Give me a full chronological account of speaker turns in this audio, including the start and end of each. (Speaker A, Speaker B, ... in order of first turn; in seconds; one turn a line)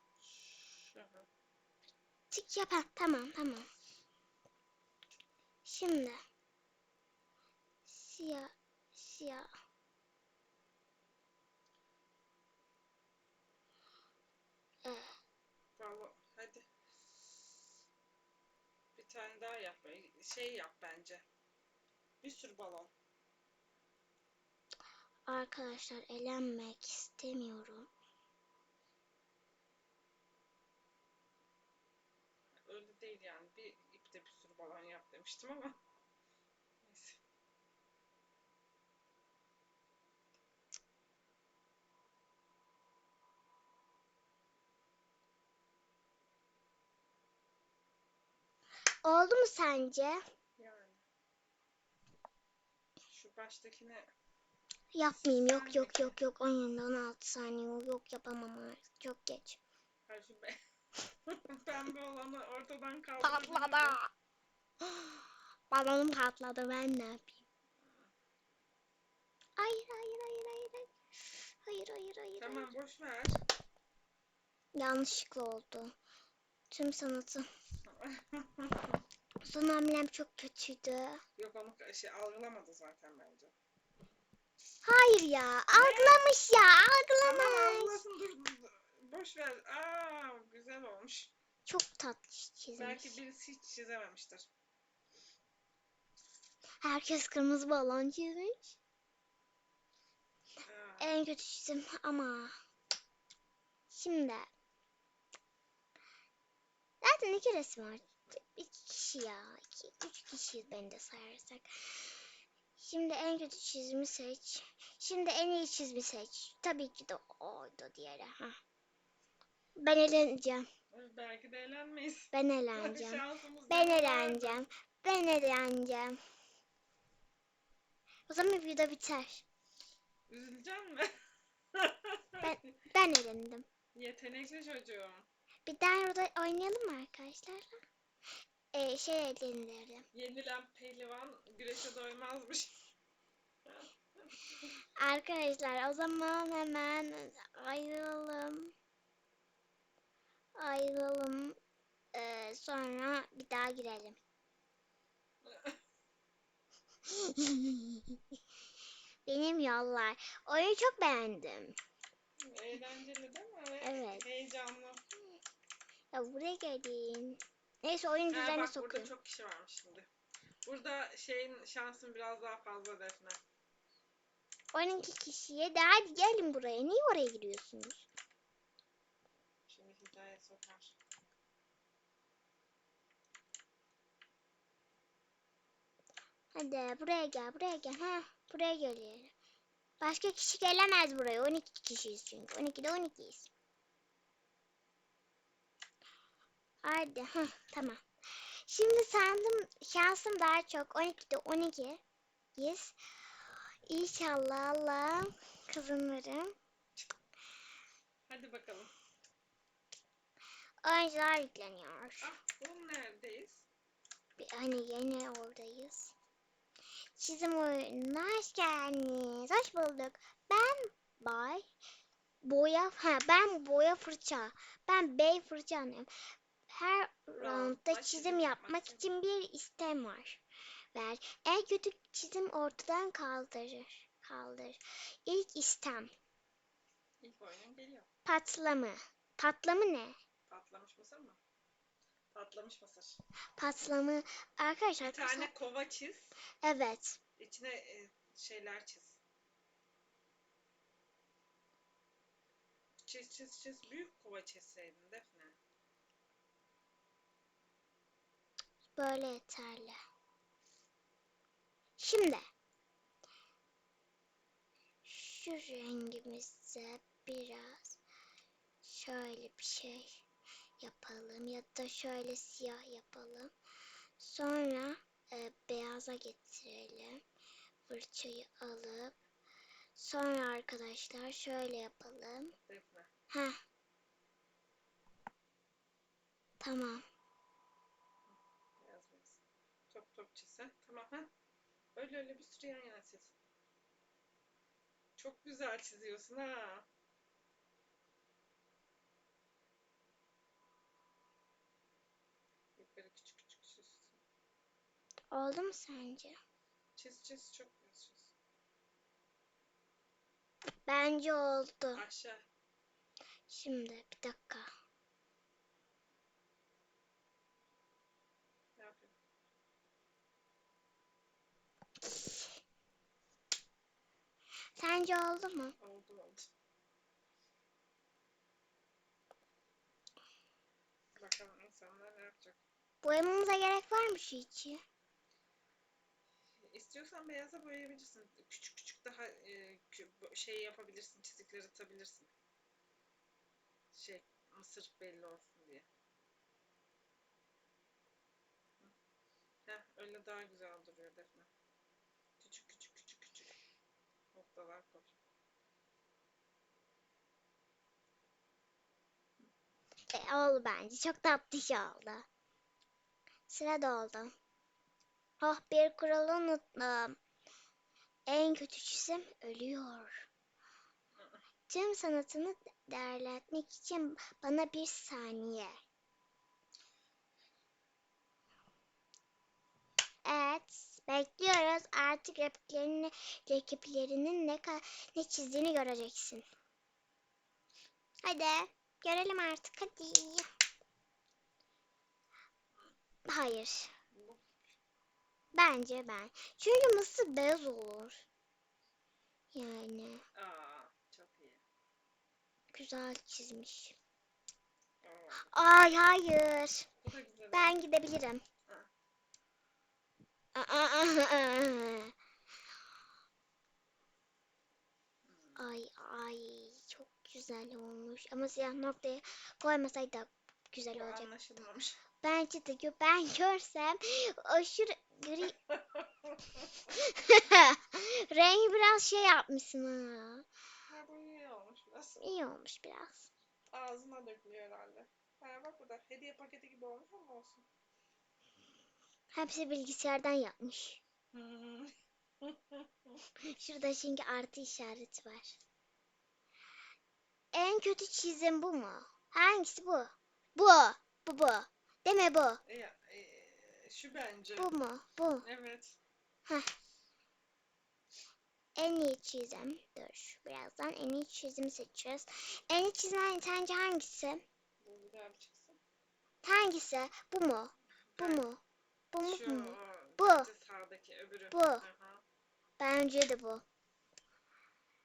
Speaker A: 0.2-1.3
Speaker B: 2.3-3.7
Speaker B: 5.6-6.2
Speaker B: 7.8-9.5
Speaker B: 14.8-15.1
Speaker A: 15.8-17.4
Speaker A: 18.9-21.2
Speaker A: 22.2-22.9
Speaker B: 25.3-27.9
Speaker A: 32.6-35.8
Speaker A: 36.8-37.2
Speaker B: 49.0-50.2
Speaker A: 50.6-51.0
Speaker A: 53.1-54.1
Speaker B: 54.9-59.6
Speaker A: 55.2-56.2
Speaker A: 60.1-60.6
Speaker A: 61.3-64.0
Speaker B: 63.2-64.1
Speaker B: 64.8-67.4
Speaker A: 67.8-68.1
Speaker B: 69.6-70.9
Speaker B: 71.6-72.7
Speaker A: 72.4-73.4
Speaker B: 74.7-76.0
Speaker B: 76.7-77.5
Speaker A: 77.8-79.0
Speaker B: 79.4-81.2
Speaker A: 81.4-83.5
Speaker B: 84.8-88.0
Speaker A: 85.7-86.2
Speaker A: 87.2-91.3
Speaker B: 91.7-93.2
Speaker A: 92.8-94.5
Speaker B: 96.8-98.8
Speaker A: 100.6-101.1
Speaker B: 101.0-102.5
Speaker B: 103.9-104.5
Speaker B: 107.0-112.1
Speaker B: 112.8-118.5
Speaker B: 119.8-120.7
Speaker A: 120.9-124.6
Speaker B: 122.3-126.2
Speaker B: 128.3-129.4
Speaker A: 130.3-131.1
Speaker A: 131.7-132.6
Speaker B: 132.4-133.7
Speaker A: 133.9-135.3
Speaker B: 135.7-137.8
Speaker B: 138.7-140.0
Speaker A: 140.1-142.7
Speaker B: 145.0-148.7
Speaker B: 150.5-151.6
Speaker B: 152.1-154.2
Speaker A: 155.4-155.8
Speaker B: 157.1-158.2
Speaker B: 159.2-161.8
Speaker A: 162.4-165.0
Speaker B: 163.8-164.2
Speaker B: 166.1-169.1
Speaker A: 168.3-170.1
Speaker A: 170.6-173.4
Speaker B: 174.7-178.1
Speaker A: 179.7-180.9
Speaker B: 186.5-189.3
Speaker B: 190.0-193.5
Speaker B: 196.8-198.0
Speaker B: 198.7-202.0
Speaker B: 202.6-202.9
Speaker B: 203.9-206.5
Speaker A: 208.3-208.9
Speaker B: 210.8-212.3
Speaker A: 212.2-213.7
Speaker B: 214.4-216.1
Speaker B: 217.2-221.6
Speaker B: 222.4-226.1
Speaker B: 226.7-230.4
Speaker A: 227.4-229.1
Speaker B: 230.9-236.1
Speaker A: 237.2-238.1
Speaker B: 238.2-240.2
Speaker A: 240.5-241.4
Speaker A: 242.3-243.2
Speaker B: 243.6-245.5
Speaker A: 245.0-246.3
Speaker B: 246.6-247.2
Speaker A: 247.4-249.2
Speaker A: 253.1-255.6
Speaker B: 258.9-260.0
Speaker B: 262.0-262.4
Speaker B: 265.0-268.0
Speaker B: 268.8-270.2
Speaker B: 270.8-273.5
Speaker B: 274.2-277.2
Speaker B: 277.9-279.1
Speaker B: 279.9-282.5
Speaker A: 282.7-283.1
Speaker B: 283.3-283.6
Speaker B: 286.6-287.0
Speaker A: 288.3-291.3
Speaker A: 291.9-293.3
Speaker A: 295.1-296.9
Speaker A: 302.8-304.2
Speaker B: 305.3-306.4
Speaker A: 306.9-308.3
Speaker B: 310.9-312.0
Speaker A: 311.9-312.4
Speaker B: 313.5-314.7
Speaker A: 318.8-319.1
Speaker B: 322.0-322.6
Speaker B: 324.8-325.7
Speaker A: 325.8-326.5
Speaker A: 331.1-332.6
Speaker B: 333.0-334.8
Speaker A: 336.6-342.3
Speaker A: 343.9-345.9
Speaker A: 349.7-351.5
Speaker A: 352.4-353.6
Speaker A: 354.3-355.1
Speaker B: 360.1-362.3
Speaker B: 363.5-364.3
Speaker B: 365.4-367.2
Speaker B: 368.3-370.2
Speaker A: 371.1-371.4
Speaker B: 371.7-375.7
Speaker B: 380.2-386.4
Speaker B: 388.2-390.5
Speaker B: 393.2-393.9
Speaker A: 394.1-394.5
Speaker B: 395.5-398.2
Speaker B: 399.5-400.2
Speaker A: 400.3-401.6
Speaker B: 402.7-403.9
Speaker A: 405.0-405.5
Speaker B: 405.4-406.9
Speaker A: 407.0-407.8
Speaker B: 407.5-408.4
Speaker B: 410.5-412.1
Speaker A: 415.2-415.7
Speaker B: 415.6-421.3
Speaker A: 420.9-422.0
Speaker B: 422.2-425.5
Speaker A: 425.6-426.7
Speaker B: 426.9-430.4
Speaker A: 430.8-432.2
Speaker B: 432.2-433.3
Speaker A: 433.7-437.6
Speaker B: 439.3-441.0
Speaker A: 441.3-443.2
Speaker B: 443.4-445.6
Speaker B: 447.5-452.6
Speaker A: 452.6-454.7
Speaker B: 454.6-455.4
Speaker A: 455.4-456.0
Speaker B: 458.8-464.4
Speaker A: 464.8-465.8
Speaker B: 466.4-468.6
Speaker A: 468.1-468.4
Speaker B: 469.1-470.5
Speaker A: 469.2-472.2
Speaker B: 471.5-471.9
Speaker B: 472.8-473.6